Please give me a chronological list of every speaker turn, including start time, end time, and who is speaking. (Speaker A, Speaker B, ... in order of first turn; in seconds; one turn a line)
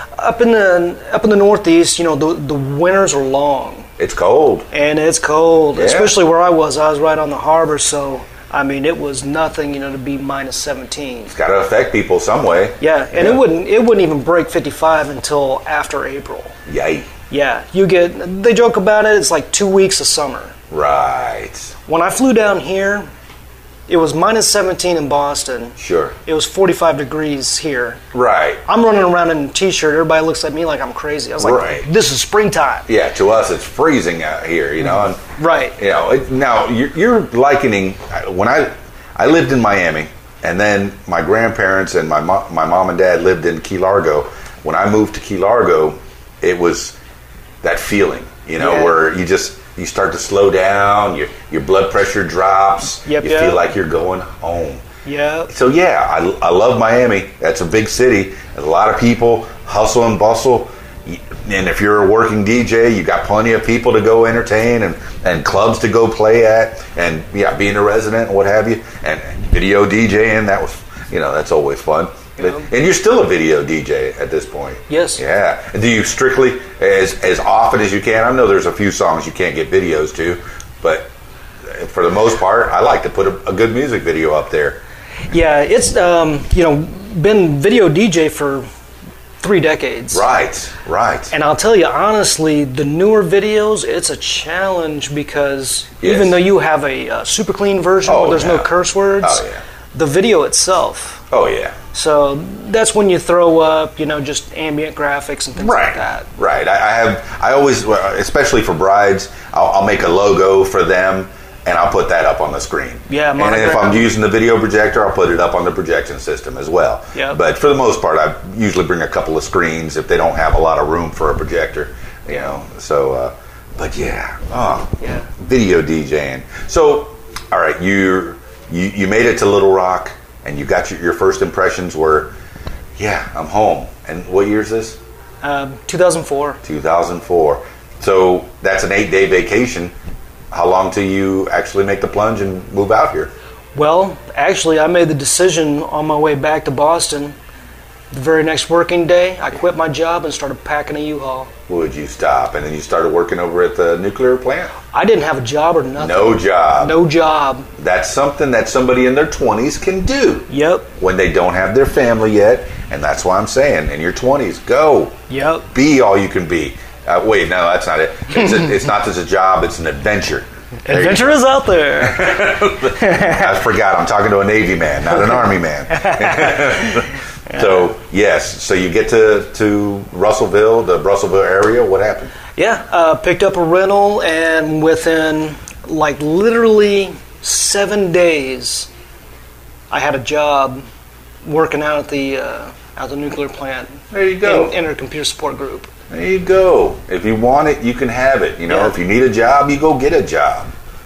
Speaker A: 0.2-3.9
Speaker B: 4.0-4.7
Speaker A: 4.7-11.3
Speaker B: 5.8-6.2
Speaker B: 11.3-13.4
Speaker A: 12.8-16.6
Speaker B: 16.7-17.1
Speaker A: 17.3-20.6
Speaker B: 20.7-21.7
Speaker A: 21.9-23.1
Speaker A: 23.9-28.0
Speaker B: 25.8-26.2
Speaker B: 28.1-28.6
Speaker A: 28.7-32.9
Speaker B: 31.4-31.9
Speaker B: 32.9-35.2
Speaker A: 35.4-35.8
Speaker B: 35.8-47.0
Speaker B: 47.6-54.8
Speaker A: 48.6-49.0
Speaker A: 53.1-53.6
Speaker A: 55.0-55.5
Speaker B: 55.5-81.1
Speaker A: 72.4-72.7
Speaker A: 74.9-75.2
Speaker B: 81.7-84.8
Speaker A: 85.3-88.7
Speaker A: 89.4-90.2
Speaker B: 90.1-91.3
Speaker A: 91.3-101.2
Speaker B: 96.0-96.4
Speaker B: 98.0-99.6
Speaker B: 101.3-101.8
Speaker A: 101.9-106.3
Speaker B: 105.6-132.3
Speaker A: 113.1-114.1
Speaker A: 117.1-117.4
Speaker A: 125.0-125.3
Speaker B: 133.0-135.0
Speaker A: 135.4-136.6
Speaker B: 136.6-139.9
Speaker B: 140.5-143.3
Speaker A: 143.8-147.3
Speaker A: 148.1-151.5
Speaker B: 151.7-154.8
Speaker A: 154.9-157.7
Speaker B: 156.0-157.0
Speaker B: 157.8-171.4
Speaker A: 160.5-160.9
Speaker A: 165.3-165.7
Speaker A: 170.9-173.5
Speaker B: 172.0-182.3
Speaker A: 175.9-177.7
Speaker A: 182.6-188.9
Speaker A: 189.9-190.8
Speaker A: 191.4-195.9
Speaker B: 194.1-194.7
Speaker B: 196.1-200.7
Speaker A: 198.7-199.0